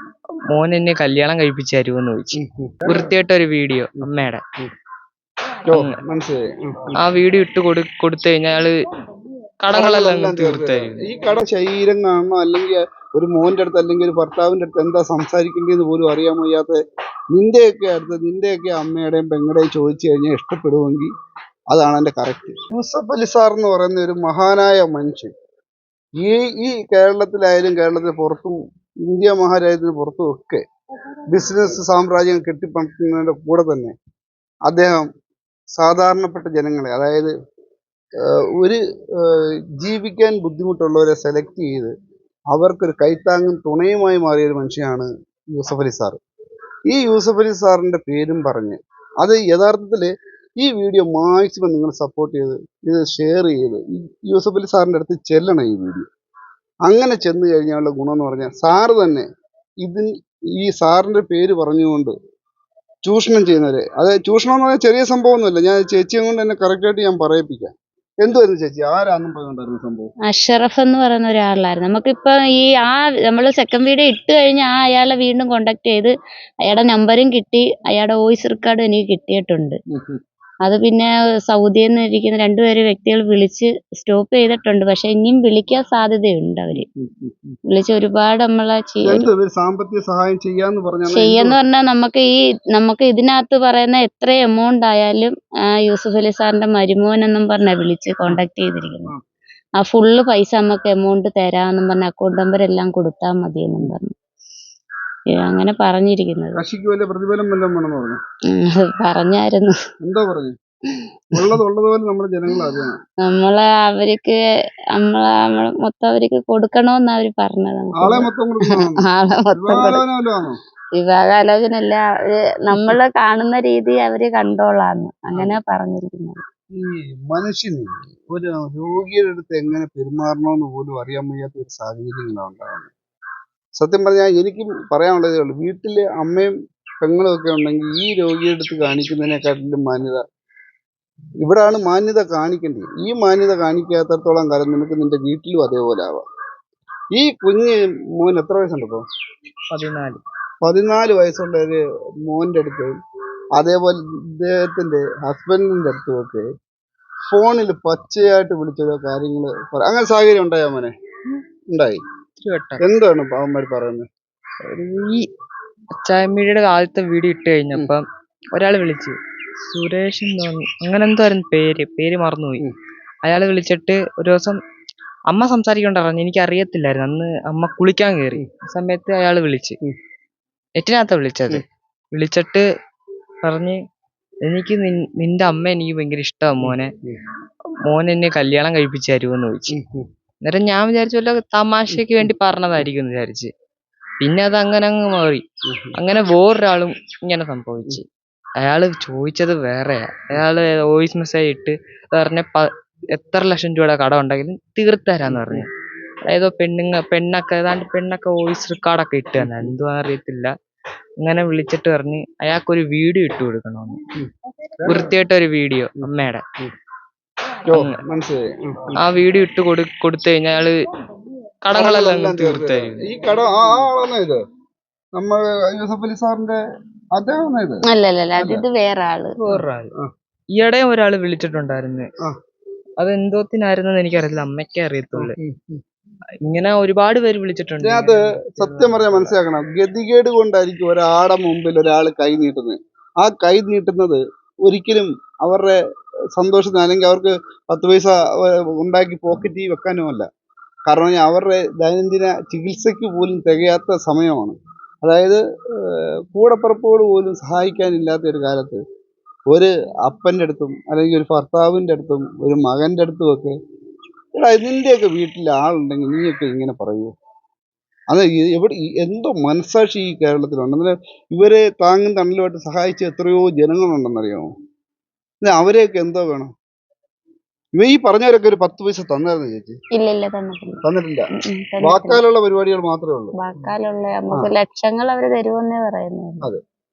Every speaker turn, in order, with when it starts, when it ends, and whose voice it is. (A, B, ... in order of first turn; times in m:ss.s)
0:00.5-0:04.4 A
0:02.4-0:03.1 B
0:04.0-0:04.7 B
0:05.7-0:07.0 B
0:05.7-0:06.0 A
0:07.0-0:08.8 A
0:09.6-0:11.1 A
0:09.7-0:16.8 B
0:17.3-0:21.1 B
0:21.7-0:25.3 B
0:26.2-0:30.6 B
0:31.3-0:33.9 B
0:34.7-0:35.1 B
0:35.8-0:37.3 B
0:38.2-0:41.9 B
0:42.5-0:46.2 B
0:46.9-0:56.1 B
0:56.9-0:59.3 B
0:59.8-1:02.1 B
1:03.0-1:10.1 B
1:10.3-1:19.8 C
1:19.9-1:20.2 B
1:20.6-1:26.9 C
1:26.7-1:27.6 B
1:27.7-1:29.3 C
1:29.0-1:31.6 B
1:31.1-1:39.1 C
1:39.8-1:44.1 C
1:45.3-1:46.6 C
1:46.6-1:48.2 B
1:48.5-1:49.7 C
1:50.0-1:50.6 B
1:51.3-1:53.0 B
1:53.2-1:54.4 C
1:55.0-2:00.0 C
1:58.0-1:59.0 B
1:59.6-2:00.6 B
2:01.0-2:06.4 C
2:06.8-2:12.9 B
2:13.8-2:20.2 B
2:21.4-2:26.2 B
2:27.2-2:29.0 B
2:29.7-2:30.2 A
2:30.6-2:33.0 B
2:33.6-2:36.5 B
2:37.3-2:40.9 B
2:41.7-2:42.0 B
2:42.4-2:42.8 A
2:42.8-2:44.1 B
2:44.7-2:45.3 A
2:46.0-2:52.6 A
2:53.2-2:54.6 A
2:55.3-2:59.8 A
3:00.8-3:02.6 A
3:03.4-3:03.8 A
3:04.4-3:06.9 A
3:06.6-3:07.2 B
3:07.8-3:09.7 A
3:09.7-3:10.1 B
3:10.4-3:13.5 A
3:11.9-3:12.3 B
3:14.2-3:15.4 A
3:15.7-3:16.0 B
3:16.0-3:18.0 A
3:18.6-3:25.7 A
3:25.3-3:25.6 B
3:26.3-3:30.5 A
3:29.4-3:29.8 B
3:31.2-3:34.0 A
3:34.2-3:35.2 B
3:34.9-3:36.4 A
3:36.0-3:36.7 B
3:37.7-3:39.0 B
3:37.7-3:38.0 A
3:39.0-3:40.8 A
3:41.6-3:43.1 A
3:41.7-3:44.4 B
3:45.2-3:46.6 B
3:47.1-3:47.8 B
3:47.9-3:49.6 C
3:48.4-3:48.6 B
3:49.4-3:49.9 A
3:50.5-3:52.1 A
3:53.0-3:55.4 A
3:55.2-3:55.8 B
3:56.4-3:59.3 A
3:57.8-4:05.8 B
4:06.4-4:10.3 B
4:10.9-4:18.8 B
4:19.5-4:23.6 B
4:24.4-4:27.1 B
4:28.1-4:34.5 B
4:35.4-4:36.5 B
4:37.8-4:39.8 B
4:40.0-4:40.8 C
4:40.8-4:41.3 B
4:41.3-4:42.2 C
4:41.8-4:43.4 B
4:43.4-4:46.5 C